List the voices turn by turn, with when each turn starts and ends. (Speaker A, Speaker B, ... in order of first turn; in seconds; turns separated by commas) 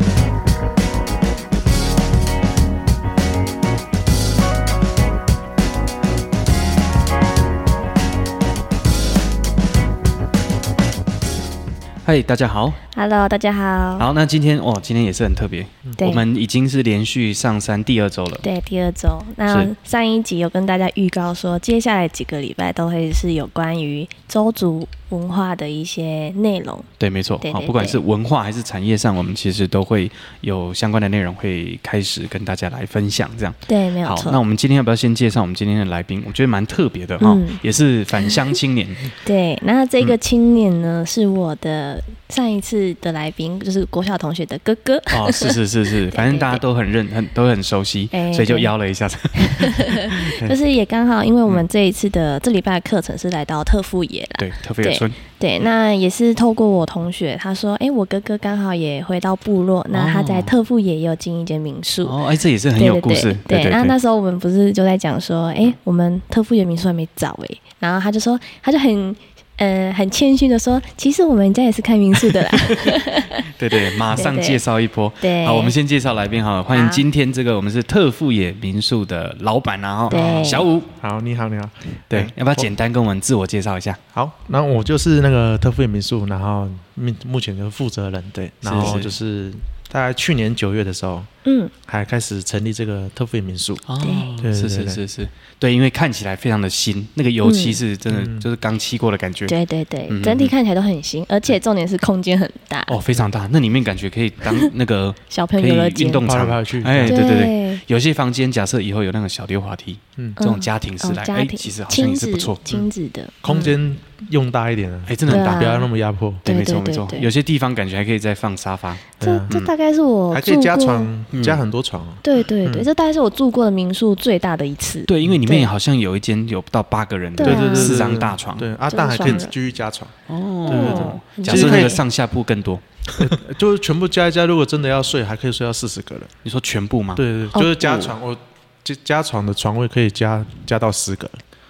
Speaker A: 12.0-12.8, Speaker B: 12.9-14.1, Speaker A: 14.0-18.5, Speaker B: 18.4-26.9, Speaker A: 27.0-39.1, Speaker B: 27.4-28.0, Speaker B: 33.7-34.4, Speaker B: 37.2-37.6, Speaker B: 39.2-46.6, Speaker A: 45.1-50.5, Speaker B: 48.1-48.7, Speaker B: 49.4-62.2, Speaker A: 54.4-55.2, Speaker A: 59.9-60.5, Speaker A: 62.0-64.0, Speaker B: 62.8-74.6, Speaker A: 72.2-80.9, Speaker B: 75.2-75.7, Speaker B: 76.7-77.0, Speaker B: 80.1-80.7, Speaker C: 80.2-80.4, Speaker C: 81.0-82.7, Speaker A: 82.1-84.0, Speaker C: 84.1-91.3, Speaker A: 88.6-89.2, Speaker B: 91.5-91.7, Speaker C: 91.8-93.8, Speaker A: 93.9-99.5, Speaker C: 94.4-95.0, Speaker B: 97.4-97.8, Speaker C: 98.1-98.5, Speaker B: 99.5-103.0, Speaker A: 100.1-100.5, Speaker A: 102.9-112.9, Speaker B: 105.3-106.3, Speaker C: 106.2-107.3, Speaker B: 107.1-107.8, Speaker B: 110.4-113.3, Speaker C: 113.4-116.5, Speaker A: 113.5-113.7, Speaker A: 115.1-115.8, Speaker B: 115.3-115.9, Speaker B: 116.5-117.3, Speaker A: 116.5-119.7, Speaker C: 119.2-119.5, Speaker B: 119.2-121.1, Speaker C: 120.3-122.9, Speaker A: 121.3-121.6, Speaker B: 122.2-125.7, Speaker A: 125.1-128.7, Speaker B: 127.4-128.2, Speaker C: 127.4-130.1, Speaker B: 128.9-129.5, Speaker A: 130.3-133.3, Speaker C: 130.7-132.0, Speaker B: 130.7-132.0, Speaker C: 133.2-136.3, Speaker A: 136.4-137.2, Speaker C: 137.2-141.4, Speaker B: 137.5-137.9, Speaker A: 137.8-138.1